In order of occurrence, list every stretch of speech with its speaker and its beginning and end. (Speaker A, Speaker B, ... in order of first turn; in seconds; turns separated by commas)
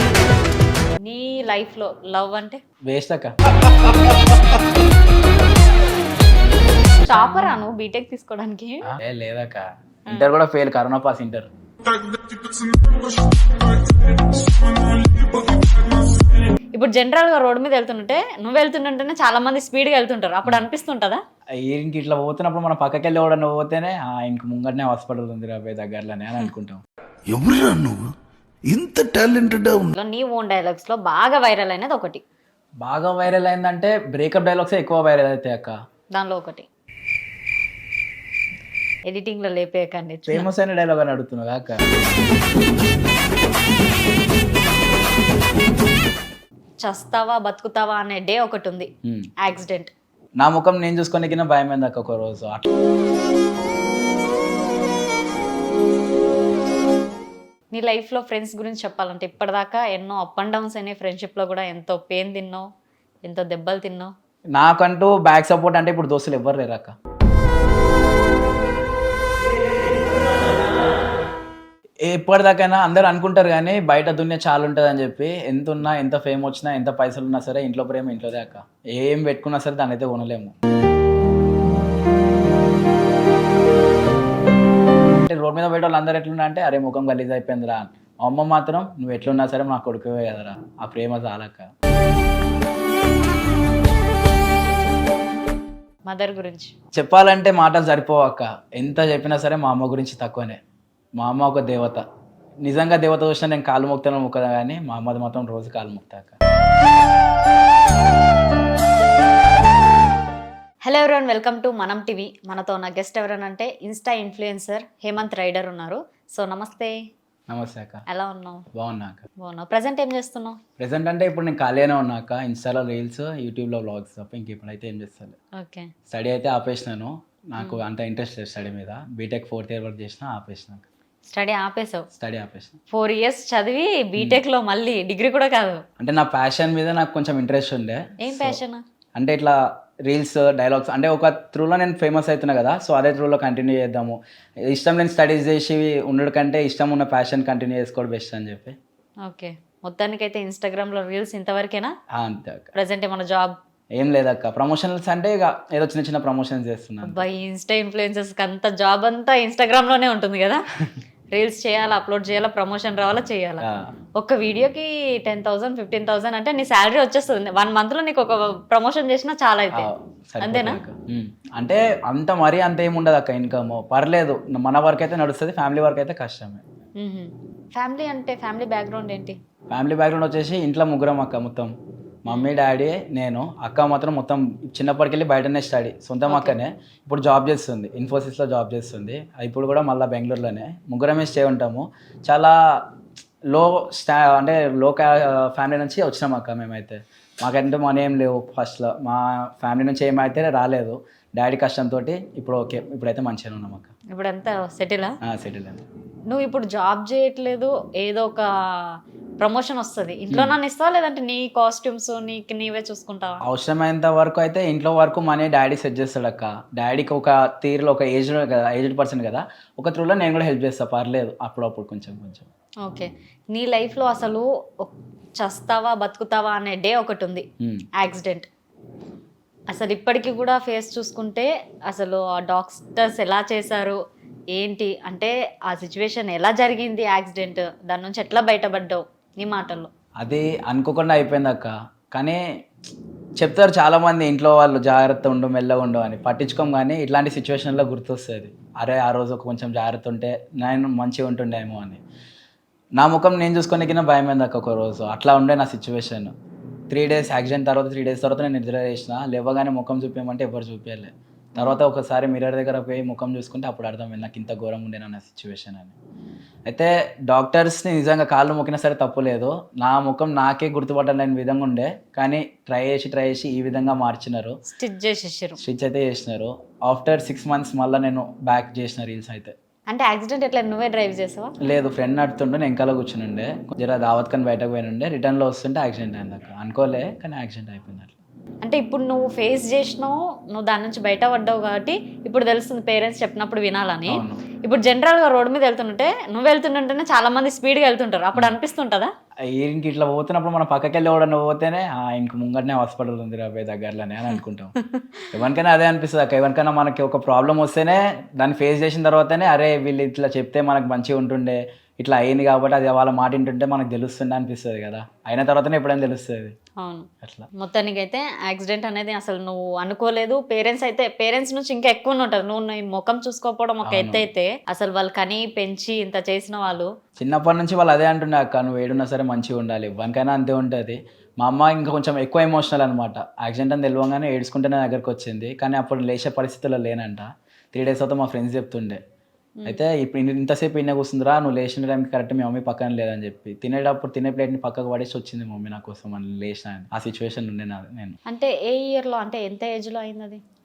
Speaker A: 1.1-2.6, Speaker B: 2.9-4.4, Speaker A: 7.0-8.9, Speaker B: 7.1-7.5, Speaker B: 8.9-11.5, Speaker A: 16.8-21.2, Speaker B: 21.6-26.8, Speaker C: 27.3-28.1, Speaker C: 28.7-29.9, Speaker A: 30.0-32.2, Speaker B: 32.8-35.7, Speaker A: 36.1-36.7, Speaker A: 39.1-40.5, Speaker B: 40.3-41.8, Speaker A: 46.8-48.9, Speaker A: 49.4-49.9, Speaker B: 50.4-52.6, Speaker A: 57.7-62.6, Speaker A: 63.2-64.1, Speaker B: 64.5-66.9, Speaker B: 72.0-80.5, Speaker B: 85.1-91.7, Speaker A: 96.1-96.7, Speaker B: 96.9-100.6, Speaker B: 101.2-102.0, Speaker B: 102.7-106.4, Speaker A: 110.8-116.9, Speaker B: 117.5-118.0, Speaker A: 118.1-118.7, Speaker B: 118.7-119.3, Speaker A: 119.4-120.6, Speaker B: 120.8-125.4, Speaker A: 125.6-125.9, Speaker B: 126.1-130.9, Speaker A: 131.2-132.1, Speaker B: 132.2-132.8, Speaker A: 132.9-135.8, Speaker B: 136.0-138.6, Speaker A: 138.2-138.8, Speaker B: 139.2-144.2, Speaker B: 144.7-148.8, Speaker A: 149.3-151.9, Speaker B: 152.1-152.7, Speaker A: 152.7-153.6, Speaker B: 153.9-157.2, Speaker A: 157.0-160.6, Speaker A: 161.3-163.7, Speaker B: 163.6-163.9, Speaker A: 164.2-169.9, Speaker B: 169.7-176.6, Speaker A: 170.4-170.8, Speaker A: 177.0-179.4, Speaker B: 179.7-181.7, Speaker B: 182.2-192.6, Speaker A: 182.3-182.5, Speaker A: 186.3-186.6, Speaker B: 193.5-203.9, Speaker A: 204.1-205.2, Speaker B: 205.2-205.8, Speaker A: 206.3-213.4, Speaker B: 210.3-210.6, Speaker B: 213.4-222.5, Speaker A: 222.8-227.5, Speaker B: 227.6-227.9, Speaker A: 228.0-228.5, Speaker A: 229.7-234.0, Speaker A: 234.5-239.9, Speaker B: 240.2-242.4, Speaker B: 243.4-252.0, Speaker B: 253.0-256.3, Speaker B: 256.9-265.9, Speaker A: 261.6-261.8, Speaker B: 266.7-274.6, Speaker A: 274.7-275.6, Speaker B: 275.6-279.5, Speaker A: 279.9-281.5, Speaker B: 281.6-288.2, Speaker A: 288.6-299.1, Speaker B: 294.1-294.4, Speaker B: 299.5-304.8, Speaker B: 305.3-316.5, Speaker A: 316.8-326.9, Speaker B: 317.2-317.5, Speaker B: 323.8-324.2, Speaker B: 327.2-339.0, Speaker A: 339.6-339.8, Speaker B: 339.7-348.2, Speaker A: 348.3-350.4